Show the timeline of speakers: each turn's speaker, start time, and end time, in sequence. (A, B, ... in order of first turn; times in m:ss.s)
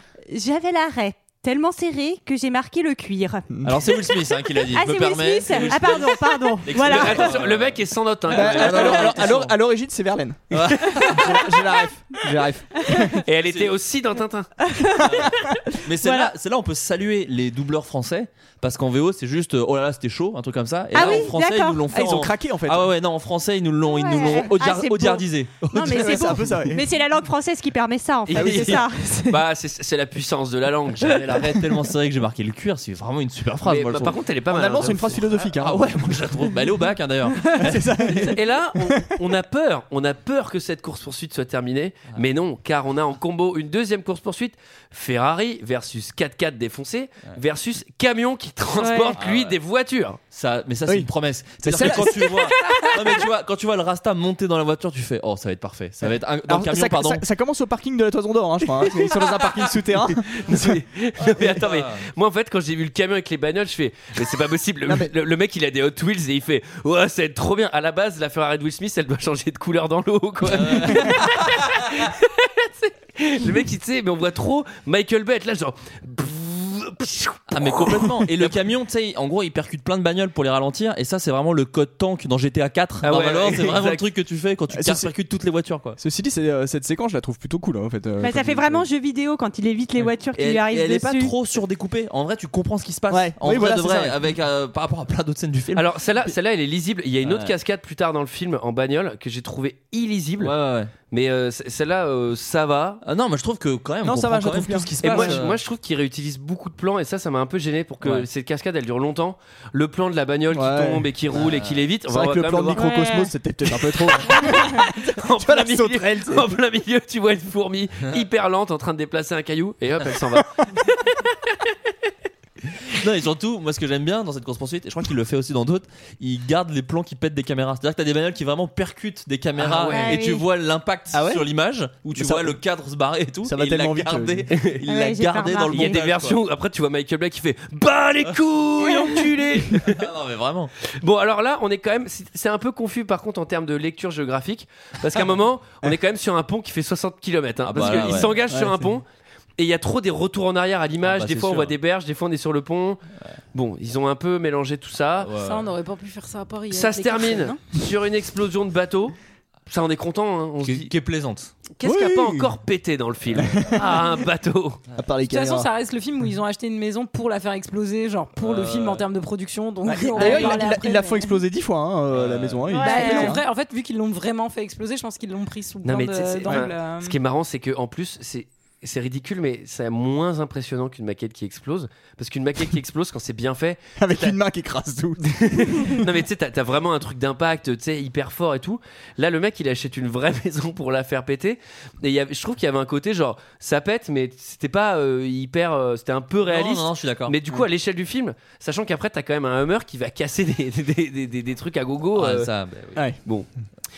0:00.3-0:03.5 A
0:03.6-0:09.5 B
0:04.6-0:07.3 A
0:06.8-0:09.5 C
0:08.3-0:13.2 D
0:10.5-0:11.4 B
0:13.2-0:14.5 C
0:13.4-0:13.7 B
0:14.7-0:15.5 A
0:15.0-0:26.6 B
0:16.0-0:16.3 A
0:20.9-0:22.2 A
0:21.9-0:22.9 D
0:23.9-0:29.4 A
0:24.2-0:24.5 D
0:25.8-0:26.9 D
0:28.3-0:31.4 C
0:28.4-0:28.8 D
0:31.0-0:34.2 B
0:33.7-0:35.2 C
0:34.5-0:36.2 D
0:35.4-0:38.3 B
0:37.5-0:39.1 D
0:38.2-0:50.2 C
0:48.8-0:49.2 A
0:49.2-0:49.6 B
0:50.3-0:57.2 B
0:51.6-0:52.5 D
0:56.0-1:00.6 D
1:00.3-1:18.5 C
1:01.3-1:02.0 B
1:10.5-1:11.6 B
1:17.5-1:26.0 B
1:23.0-1:24.0 C
1:24.7-1:25.1 D
1:26.0-1:28.9 D
1:28.2-1:31.3 A
1:30.0-1:35.9 B
1:33.1-1:34.2 D
1:35.8-1:40.5 C
1:37.2-1:37.6 B
1:40.4-1:40.9 B
1:41.1-1:43.0 C
1:43.0-1:45.6 B
1:44.0-1:45.4 D
1:45.0-1:52.8 C
1:48.0-1:48.3 B
1:50.5-1:51.0 D
1:51.3-1:51.8 B
1:52.1-1:56.5 D
1:52.8-1:53.3 A
1:54.3-2:01.7 C
2:02.9-2:16.4 B
2:09.6-2:10.2 C
2:09.9-2:10.4 A
2:11.1-2:11.4 D
2:12.2-2:12.6 D
2:13.4-2:14.5 D
2:14.5-2:14.8 C
2:14.9-2:16.0 A
2:15.7-2:20.0 C
2:19.8-2:20.7 B
2:21.0-2:29.0 C
2:27.7-2:28.4 B
2:28.0-2:28.8 D
2:29.6-2:33.0 C
2:31.0-2:31.8 B
2:33.5-2:35.3 C
2:35.2-2:35.7 B
2:35.4-2:37.6 E
2:36.7-2:39.1 C
2:39.7-2:40.9 C
2:40.6-2:41.5 B
2:41.8-2:44.8 C
2:41.8-2:42.5 D
2:43.3-2:44.0 D
2:45.0-2:45.7 D
2:45.3-2:51.4 E
2:48.4-2:49.1 B
2:49.9-2:53.4 D
2:52.1-2:52.8 B
2:52.7-2:53.4 A
2:52.8-2:57.2 E
2:55.8-3:04.3 C
3:04.0-3:06.0 D
3:05.2-3:22.5 C
3:16.5-3:17.4 B
3:22.2-3:23.0 B